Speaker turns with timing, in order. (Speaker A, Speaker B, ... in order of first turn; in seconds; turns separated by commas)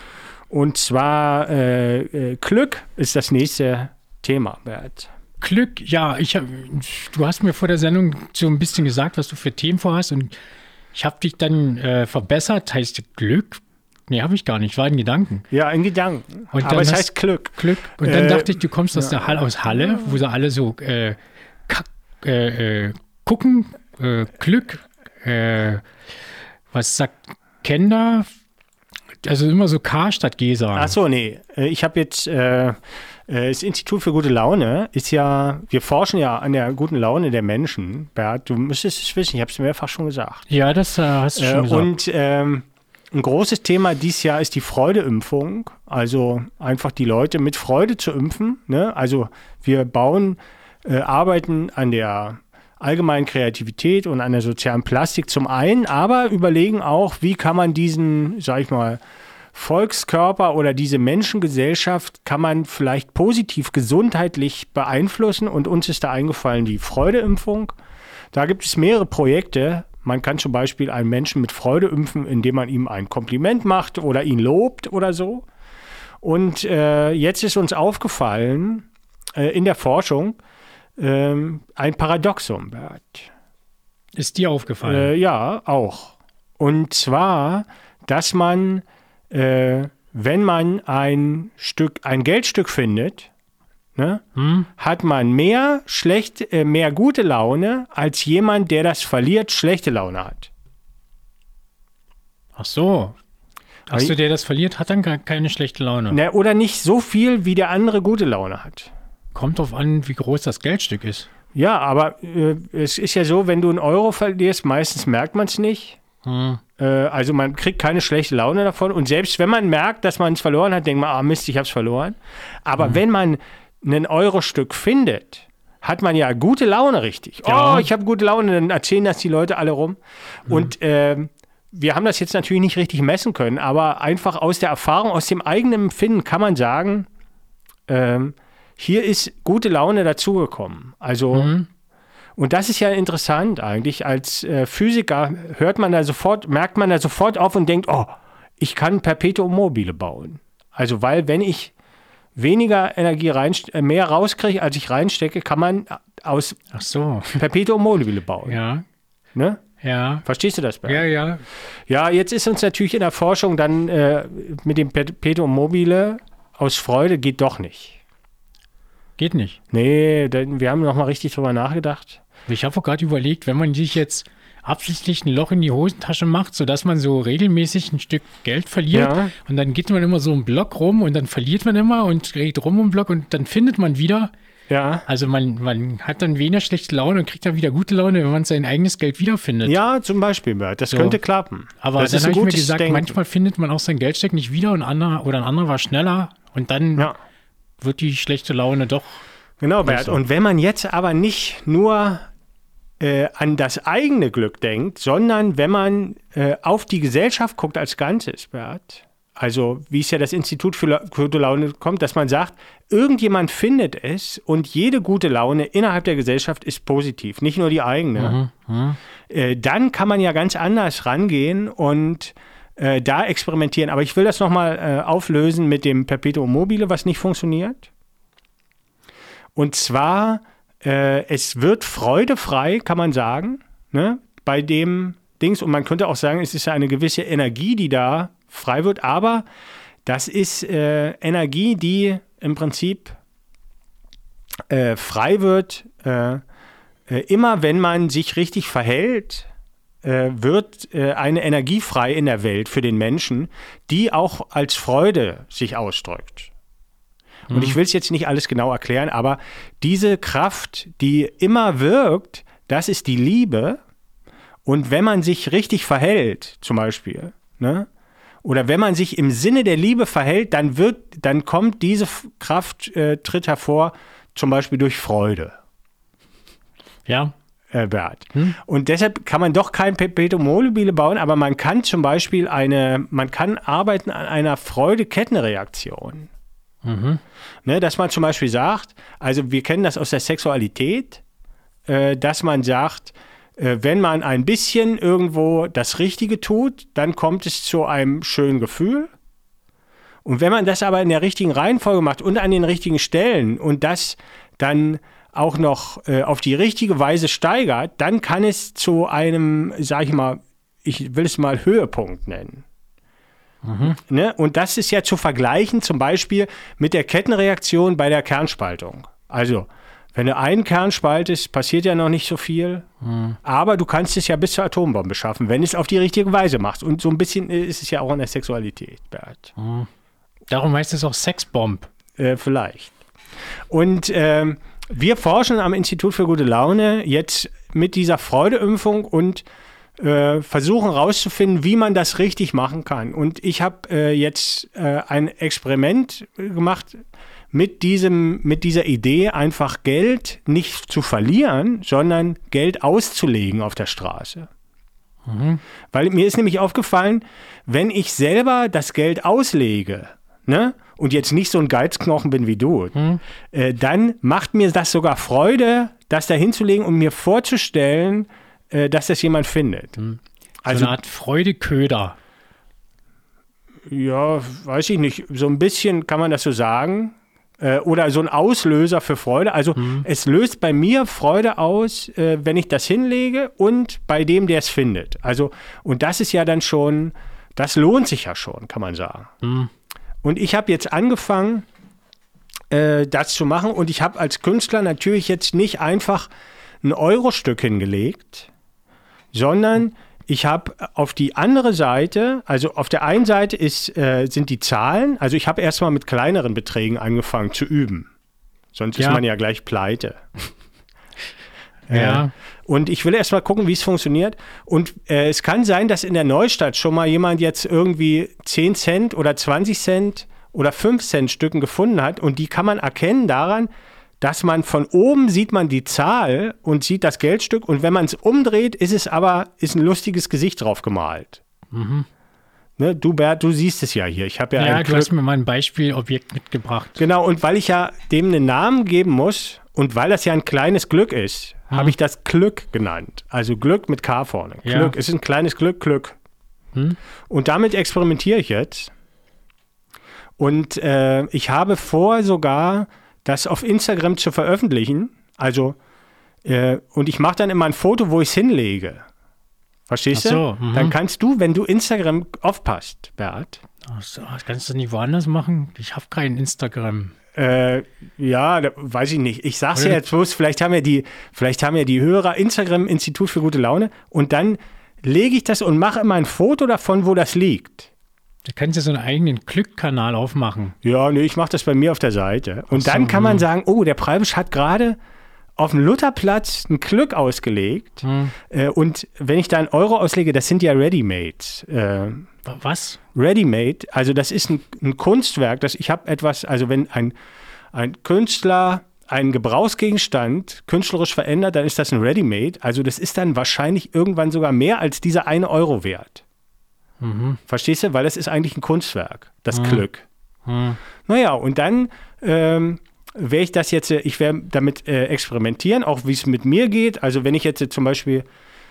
Speaker A: 0.5-5.1, Speaker B: 5.4-10.3, Speaker B: 10.9-15.4, Speaker A: 15.5-19.4, Speaker B: 16.5-25.9, Speaker B: 26.7-28.3, Speaker B: 29.2-30.9, Speaker A: 30.8-40.5, Speaker B: 40.5-41.9, Speaker A: 41.4-59.0, Speaker A: 59.5-67.7, Speaker A: 68.3-75.5, Speaker A: 76.2-80.4, Speaker A: 81.0-83.3, Speaker B: 84.2-85.1, Speaker A: 84.8-93.3, Speaker A: 94.0-94.2, Speaker B: 94.3-94.7, Speaker A: 94.8-100.5, Speaker B: 102.5-103.2, Speaker B: 103.9-106.2, Speaker A: 106.1-108.9, Speaker B: 109.3-111.3, Speaker A: 111.5-116.0, Speaker B: 116.2-116.6, Speaker A: 116.8-137.1, Speaker B: 127.5-127.9, Speaker B: 130.5-130.7, Speaker A: 137.9-141.5, Speaker B: 141.3-141.7, Speaker A: 142.3-151.7, Speaker A: 152.3-156.6, Speaker B: 156.7-157.4, Speaker A: 157.3-158.6, Speaker B: 158.4-158.8, Speaker A: 159.3-159.6, Speaker B: 159.8-160.2, Speaker A: 160.2-161.0, Speaker B: 160.8-161.4, Speaker A: 161.9-168.0, Speaker B: 169.2-169.6, Speaker A: 169.7-172.2, Speaker B: 172.5-184.3, Speaker A: 178.9-179.3, Speaker A: 184.7-185.0, Speaker B: 185.1-189.8, Speaker A: 189.6-193.1, Speaker B: 190.9-191.2, Speaker B: 191.8-197.1, Speaker B: 197.8-199.2, Speaker A: 199.6-202.3, Speaker B: 199.8-200.2, Speaker A: 203.0-218.4, Speaker B: 218.2-219.0, Speaker A: 219.3-227.9, Speaker A: 229.5-239.4, Speaker A: 240.1-243.2, Speaker A: 244.7-246.4, Speaker A: 247.1-249.5, Speaker A: 250.0-256.5, Speaker B: 257.5-257.8, Speaker A: 257.5-263.8, Speaker A: 264.6-267.9, Speaker A: 268.4-275.6, Speaker B: 277.1-277.3, Speaker A: 277.7-286.3, Speaker B: 286.8-287.2, Speaker A: 287.6-291.2, Speaker A: 291.9-299.1, Speaker A: 300.2-312.6, Speaker B: 313.6-314.0, Speaker A: 313.8-322.9, Speaker B: 323.0-323.4, Speaker A: 323.4-329.5, Speaker B: 329.6-329.9, Speaker B: 330.5-331.9, Speaker A: 332.2-332.9, Speaker A: 333.7-339.4, Speaker A: 340.0-354.5, Speaker B: 355.2-355.6, Speaker A: 355.9-362.9, Speaker B: 362.9-363.2, Speaker A: 363.5-370.0, Speaker B: 370.0-372.1, Speaker A: 370.6-371.0, Speaker A: 373.9-389.3, Speaker B: 379.8-380.1, Speaker B: 389.4-389.7, Speaker A: 390.2-391.6, Speaker A: 392.7-396.3, Speaker A: 396.8-398.5, Speaker A: 399.3-408.1, Speaker A: 408.7-410.2, Speaker B: 409.0-409.2, Speaker A: 411.9-423.7, Speaker B: 411.9-412.3, Speaker A: 424.2-431.4, Speaker B: 431.7-432.1, Speaker A: 432.8-435.1, Speaker B: 434.6-437.0, Speaker A: 437.0-446.2, Speaker B: 441.7-441.9, Speaker B: 444.6-444.9, Speaker A: 447.3-448.9, Speaker A: 450.4-455.8, Speaker A: 456.4-459.1, Speaker A: 459.9-463.6, Speaker B: 460.1-460.9, Speaker B: 463.8-467.1, Speaker A: 467.3-477.9, Speaker B: 469.7-470.0, Speaker B: 478.4-480.7, Speaker A: 480.8-485.0, Speaker B: 482.7-483.4, Speaker A: 485.6-492.3, Speaker B: 488.0-488.3, Speaker B: 492.4-493.0, Speaker A: 493.1-497.1, Speaker A: 497.7-506.2, Speaker B: 507.0-507.4, Speaker A: 507.5-510.1, Speaker B: 509.5-509.8, Speaker B: 510.4-510.8, Speaker A: 511.1-518.2